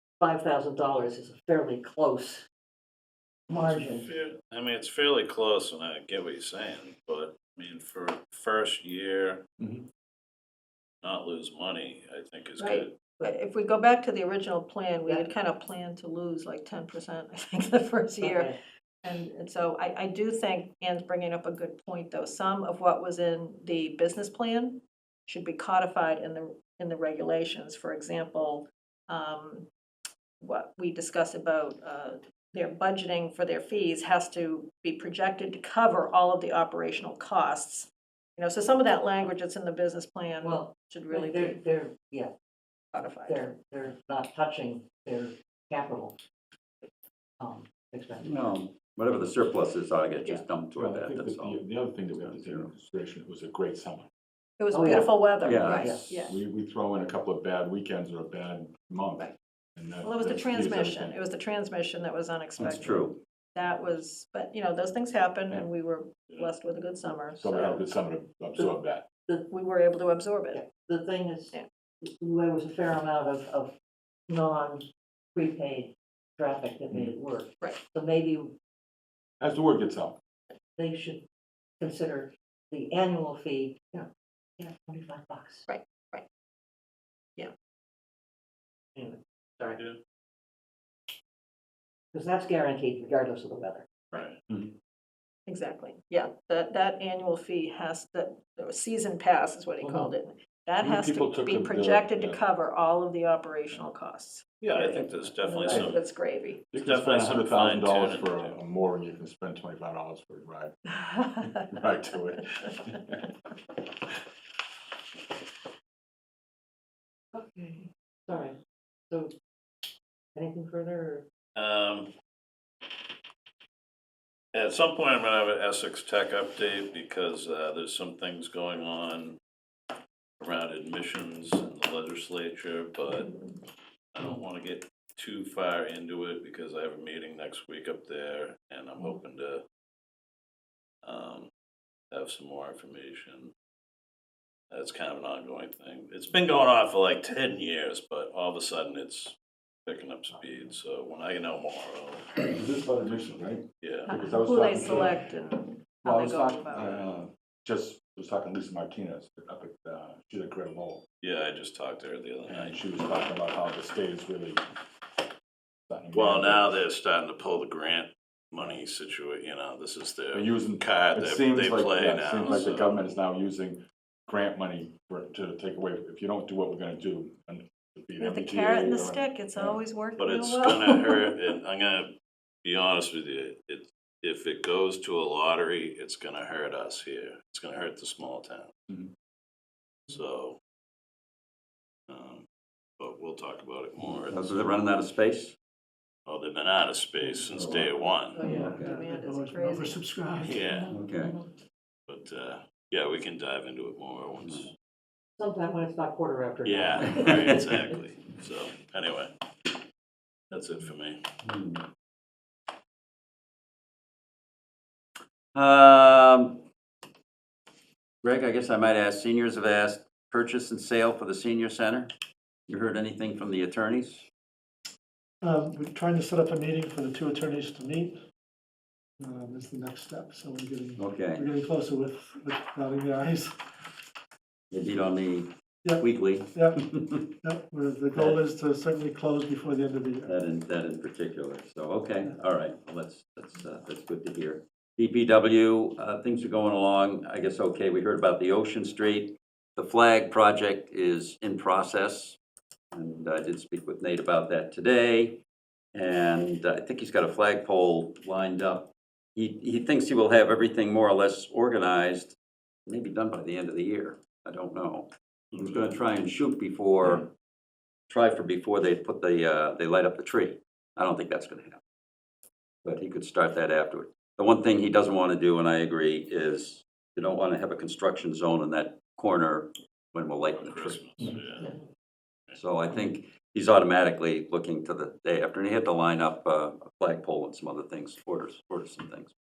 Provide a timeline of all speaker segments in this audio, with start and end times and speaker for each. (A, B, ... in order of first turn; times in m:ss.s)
0:00.2-0:02.5 A
0:03.5-0:04.1 A
0:03.5-0:09.4 B
0:09.6-0:09.8 C
0:11.0-0:12.9 B
0:12.6-0:18.5 D
0:15.0-0:15.3 A
0:18.2-0:18.6 A
0:19.0-0:29.7 D
0:30.4-0:41.6 D
0:40.4-0:42.3 A
0:42.9-0:43.4 D
0:43.2-0:46.1 A
0:47.4-0:48.3 A
0:48.2-0:52.7 E
0:50.7-0:54.1 C
0:54.6-0:56.4 D
0:54.7-0:55.1 A
0:55.4-0:56.3 E
0:55.7-0:56.0 A
0:56.2-1:01.2 C
1:00.0-1:07.7 D
1:02.6-1:03.2 E
1:07.3-1:09.0 C
1:09.5-1:10.6 D
1:10.5-1:13.7 A
1:14.3-1:18.5 A
1:19.4-1:20.2 C
1:20.8-1:21.2 A
1:21.8-1:24.1 A
1:24.6-1:25.6 A
1:25.7-1:26.2 D
1:28.9-1:29.8 A
1:32.1-1:33.9 A
1:34.1-1:34.4 B
1:35.5-1:46.6 D
1:39.8-1:40.1 A
1:40.8-1:42.4 C
1:44.6-1:46.0 B
1:45.7-1:46.0 C
1:46.7-1:50.7 C
1:46.8-1:48.6 B
1:50.9-1:51.7 D
1:51.6-1:53.3 C
1:57.3-1:58.6 A
2:00.3-2:01.2 A
2:01.6-2:02.1 B
2:04.5-2:09.4 B
2:10.4-2:13.3 B
2:13.2-2:13.5 D
2:14.1-2:19.6 B
2:21.0-2:21.5 B
2:22.1-2:23.5 B
2:24.7-2:29.3 B
2:29.8-2:32.5 B
2:32.4-2:35.2 C
2:33.8-2:34.1 B
2:34.0-2:36.9 D
2:36.0-2:41.0 C
2:36.8-2:37.2 B
2:41.2-2:42.8 B
2:42.5-2:44.6 C
2:45.9-2:46.8 C
2:46.1-2:53.0 B
2:50.3-2:59.8 C
2:58.2-3:01.3 D
3:00.2-3:02.1 B
3:02.6-3:08.7 B
3:10.1-3:10.6 B
3:12.1-3:12.4 B
3:13.0-3:14.7 B
3:14.2-3:15.5 E
3:16.2-3:18.4 B
3:17.5-3:17.9 E
3:18.3-3:20.0 D
3:18.4-3:20.9 F
3:18.4-3:18.9 E
3:20.4-3:21.0 B
3:20.9-3:21.4 E
3:22.1-3:24.7 B
3:25.4-3:27.6 A
3:26.6-3:29.3 B
3:27.3-3:27.6 E
3:30.5-3:31.2 B
3:31.4-3:31.8 E
3:35.5-3:36.6 E
3:38.2-3:42.1 E
3:42.7-3:44.2 E
3:45.4-3:48.2 F
3:49.2-3:53.7 F
3:51.0-3:51.4 E
3:54.7-3:57.3 E
3:55.8-3:56.8 F
3:57.4-4:00.3 F
4:00.2-4:12.4 E
4:12.9-4:15.4 E
4:15.9-4:22.4 E
4:22.9-4:27.2 E
4:28.1-4:31.8 E
4:32.8-4:41.2 E
4:40.5-4:41.7 B
4:42.6-4:49.3 E